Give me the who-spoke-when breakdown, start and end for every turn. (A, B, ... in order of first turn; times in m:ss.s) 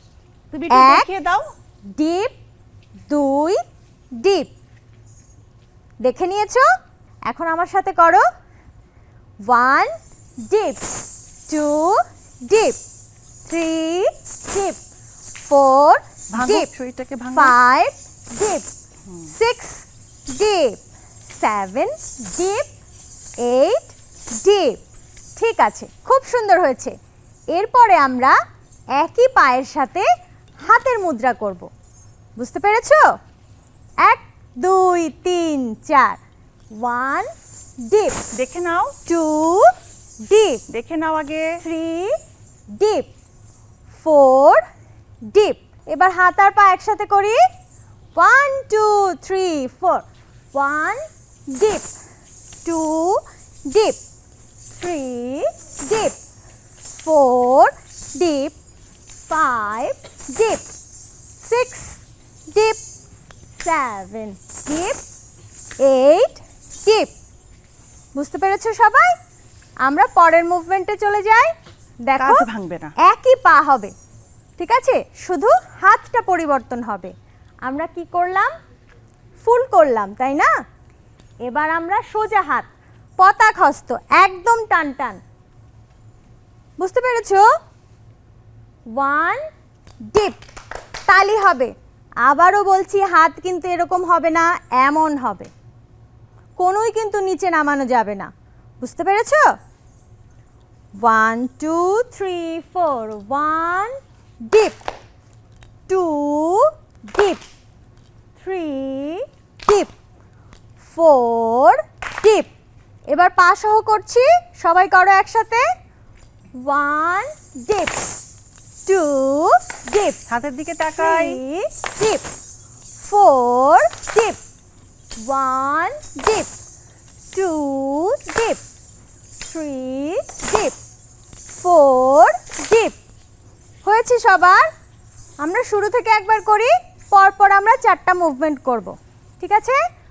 0:00.5-0:01.4 A
0:00.7-0:01.1 B
0:02.0-0:02.4 B
0:03.1-0:03.6 B
0:04.2-0:04.5 B
0:06.0-0:06.6 B
0:07.3-0:08.2 B
0:09.5-0:09.9 B
0:10.5-0:10.9 B
0:11.5-0:12.8 B
0:13.5-0:14.8 B
0:15.5-0:16.7 B
0:16.3-0:17.5 A
0:17.3-0:18.7 B
0:19.3-0:20.8 B
0:21.4-0:22.7 B
0:23.4-0:24.8 B
0:25.4-0:27.0 B
0:27.5-0:28.4 B
0:29.0-0:30.1 B
0:30.6-0:31.7 B
0:32.4-0:33.0 B
0:34.0-0:36.2 B
0:36.8-0:37.3 B
0:37.9-0:38.2 B
0:38.4-0:38.9 A
0:39.1-0:39.7 B
0:40.2-0:40.6 B
0:40.7-0:41.5 A
0:41.6-0:42.2 B
0:42.8-0:43.1 B
0:43.9-0:44.6 B
0:45.3-0:47.4 B
0:48.2-0:51.9 B
0:52.6-0:54.0 B
0:54.8-0:56.2 B
0:56.9-0:58.6 B
0:59.3-1:00.7 B
1:01.4-1:02.0 B
1:02.5-1:02.8 B
1:03.6-1:05.0 B
1:05.8-1:07.1 B
1:08.2-1:09.2 B
1:09.8-1:11.5 B
1:12.1-1:12.5 B
1:12.2-1:12.9 A
1:13.0-1:13.9 B
1:14.6-1:17.1 B
1:17.6-1:18.5 B
1:19.4-1:20.5 B
1:21.4-1:25.2 B
1:26.8-1:27.4 B
1:28.9-1:29.4 B
1:30.1-1:30.4 B
1:31.1-1:31.7 B
1:32.2-1:35.5 B
1:36.6-1:39.5 B
1:41.0-1:44.8 B
1:45.9-1:47.4 B
1:48.4-1:49.9 B
1:50.8-1:52.5 B
1:53.1-1:55.6 B
1:56.6-1:58.1 B
1:58.9-2:00.2 B
2:00.3-2:01.4 A
2:01.0-2:02.2 B
2:03.0-2:04.4 B
2:05.2-2:06.5 B
2:07.3-2:08.6 B
2:09.5-2:10.8 B
2:11.6-2:13.0 B
2:13.8-2:14.7 B
2:15.4-2:19.8 B